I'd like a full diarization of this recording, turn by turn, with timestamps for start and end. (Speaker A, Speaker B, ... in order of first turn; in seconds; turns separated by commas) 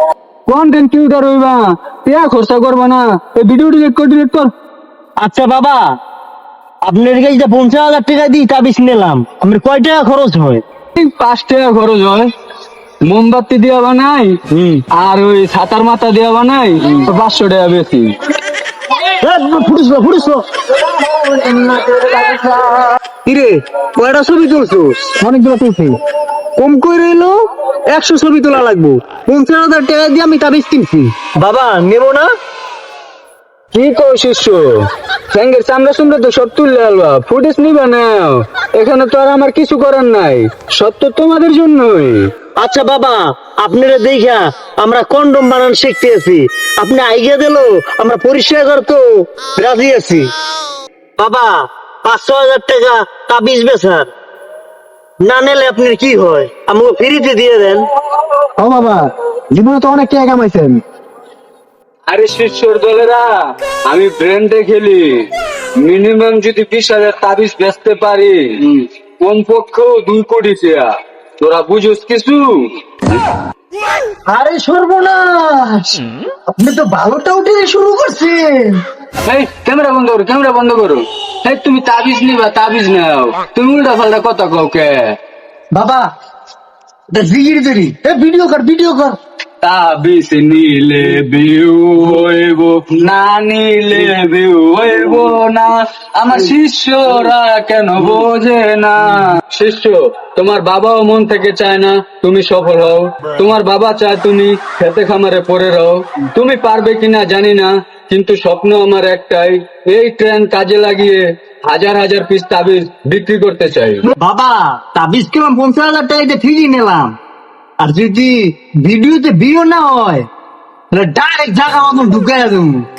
Speaker A: 0.5-4.5, Speaker B: 5.2-5.8, Speaker B: 6.8-10.6, Speaker A: 10.9-12.3, Speaker A: 13.0-14.4, Speaker B: 14.5-14.8, Speaker A: 14.9-18.1, Speaker B: 19.2-25.2, Speaker C: 25.2-26.0, Speaker B: 26.6-27.4, Speaker B: 27.9-32.3, Speaker A: 33.7-42.3, Speaker B: 42.6-50.3, Speaker B: 51.2-54.1, Speaker B: 55.2-57.9, Speaker C: 58.6-60.8, Speaker A: 62.1-72.8, Speaker B: 74.3-76.0, Speaker B: 76.5-78.8, Speaker A: 79.2-85.2, Speaker B: 85.7-86.1, Speaker B: 87.1-89.2, Speaker A: 89.6-114.1, Speaker B: 114.1-117.2, Speaker B: 117.8-120.3, Speaker B: 120.9-122.9